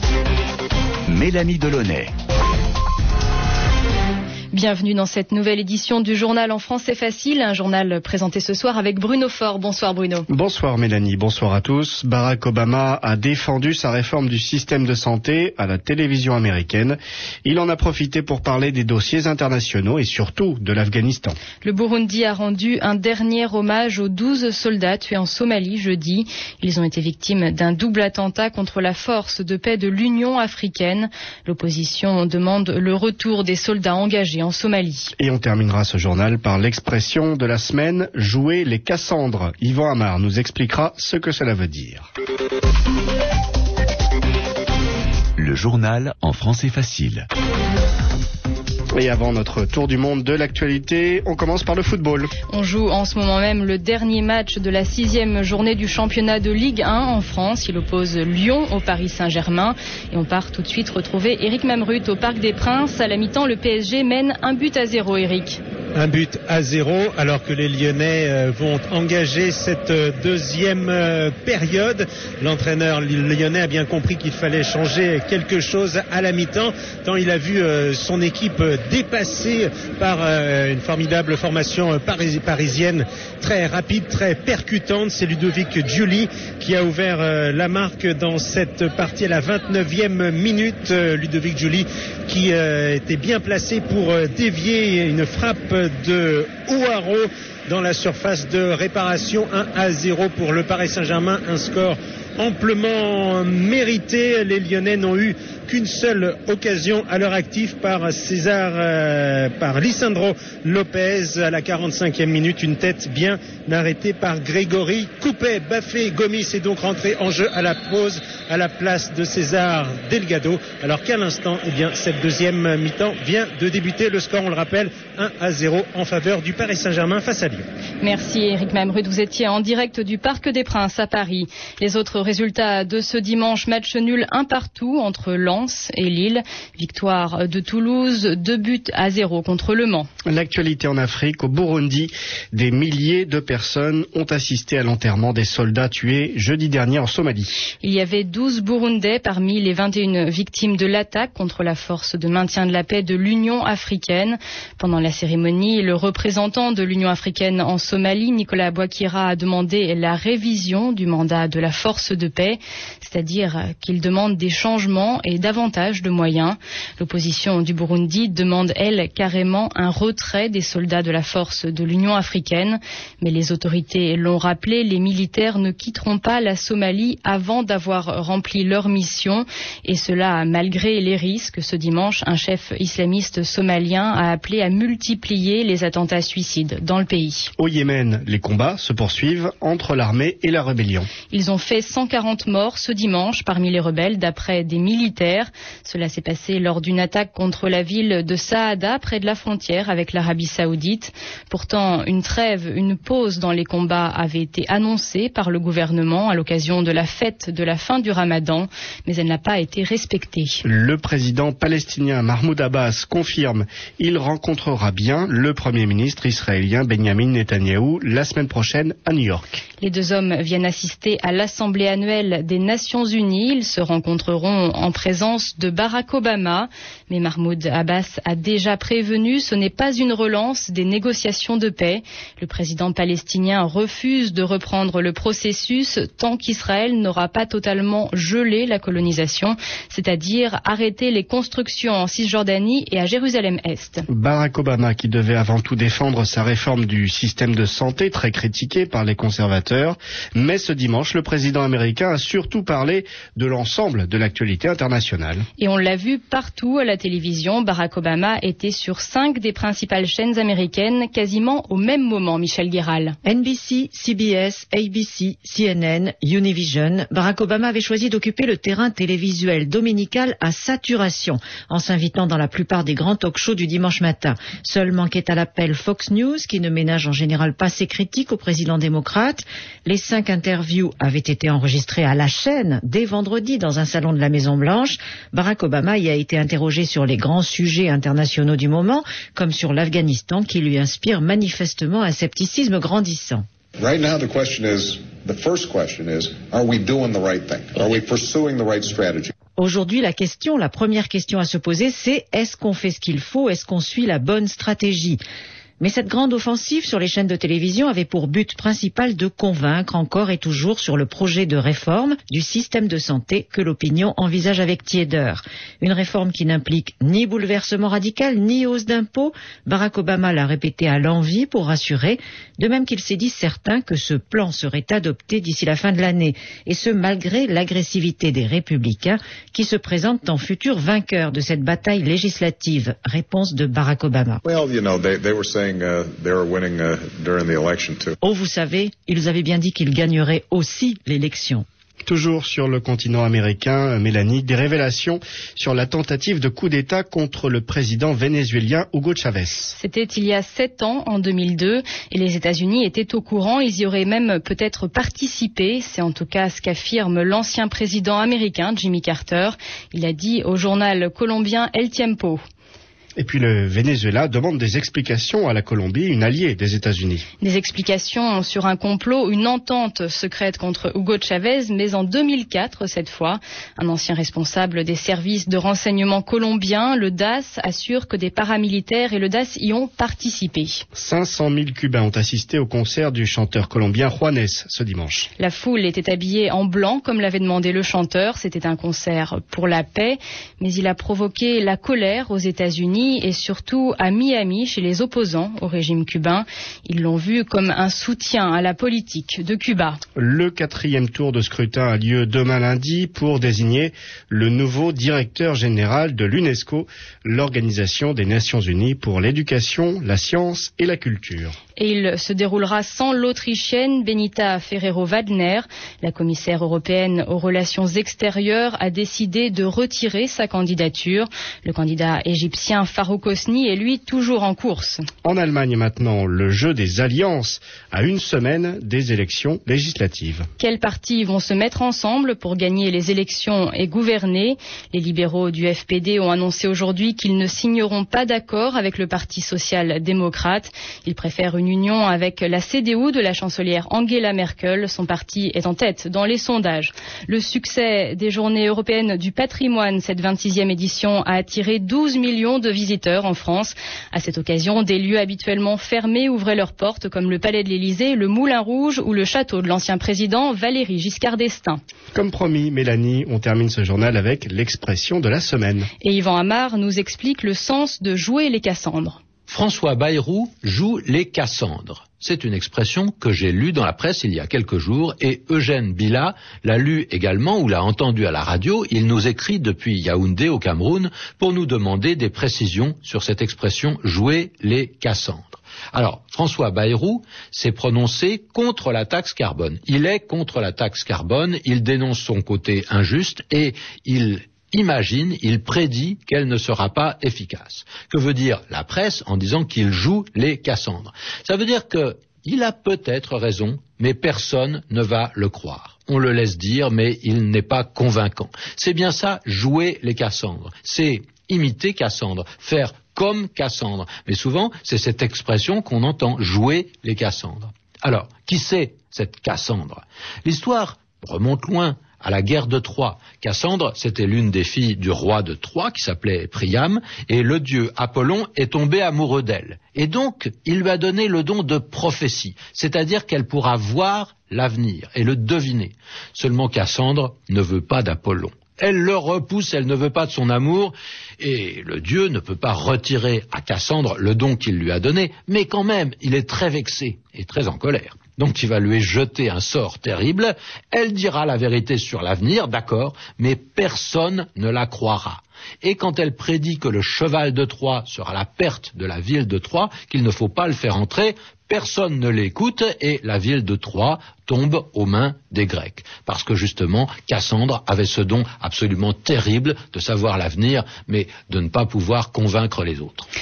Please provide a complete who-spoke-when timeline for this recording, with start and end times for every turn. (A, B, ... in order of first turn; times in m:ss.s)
0:01.1-0:02.1 A
0:04.5-0:10.3 B
0:10.3-0:21.4 C
0:21.6-0:35.1 B
0:35.2-0:42.1 C
0:45.4-0:47.3 A
0:49.0-0:52.3 C
0:52.5-1:05.6 B
1:06.0-2:07.7 D
2:08.0-2:20.1 B
2:20.3-2:27.6 C
2:27.8-3:07.5 B
3:07.6-3:11.1 C
3:11.3-3:30.6 B
3:30.6-3:39.6 C
3:39.8-4:04.0 B
4:04.1-4:15.5 C
4:15.6-4:23.2 B
4:23.2-4:53.4 E
4:53.8-4:59.3 F
4:59.6-5:05.2 E
5:05.8-5:34.4 E
5:34.4-5:38.2 F
5:38.2-5:41.6 E
5:42.1-5:49.7 C
5:49.8-6:02.4 B
6:03.2-6:07.2 C
6:07.4-6:20.8 B
6:21.0-6:25.3 C
6:25.4-6:40.0 B
6:40.2-6:51.6 C
6:51.8-7:05.0 B
7:05.2-7:10.4 C
7:10.6-7:41.8 B
7:42.2-7:45.9 C
7:46.0-7:49.2 B
7:49.5-9:33.3 G